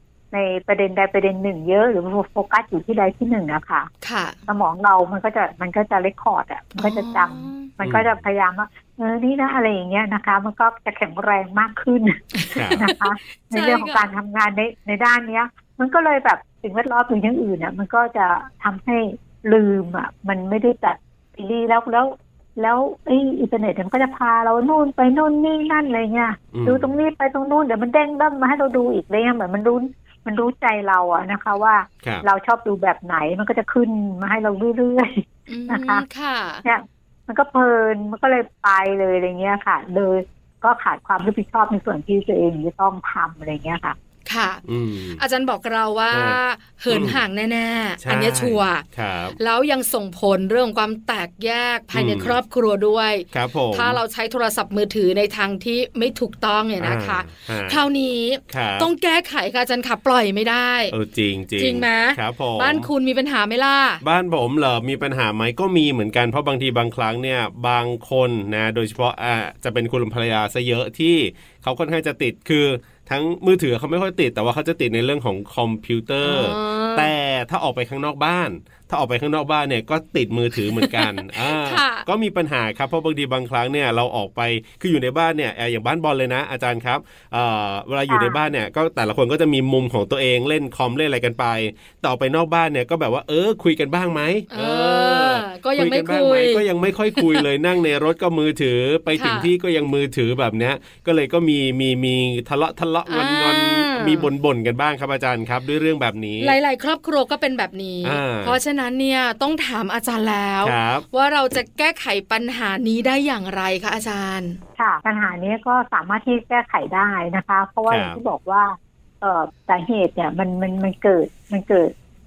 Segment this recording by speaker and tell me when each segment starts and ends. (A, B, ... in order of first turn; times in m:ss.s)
0:00.3-0:03.9 A
0:04.0-0:04.4 B
0:04.5-0:36.0 A
0:06.8-0:07.7 B
0:07.8-0:08.1 C
0:12.4-0:14.1 B
0:12.6-0:12.9 C
0:26.5-0:26.9 C
0:35.5-0:36.6 B
0:36.6-0:44.0 A
0:44.3-0:44.6 B
0:44.6-0:45.2 C
0:45.2-0:48.8 B
0:46.1-0:46.4 C
0:46.9-0:47.2 C
0:48.0-0:49.4 C
0:49.4-1:00.9 B
0:51.9-0:52.4 C
0:53.3-0:54.0 C
0:56.8-0:57.8 C
0:58.5-0:58.9 C
1:00.9-1:02.9 C
1:01.6-1:04.0 B
1:04.0-1:46.6 C
1:16.2-1:17.1 B
1:20.7-1:22.0 B
1:28.1-1:28.4 A
1:34.5-1:37.5 B
1:39.1-1:39.5 B
1:43.1-1:44.3 B
1:46.4-1:54.6 B
1:48.0-1:48.6 C
1:50.6-1:51.0 C
1:54.8-2:01.9 A
1:57.9-1:58.2 C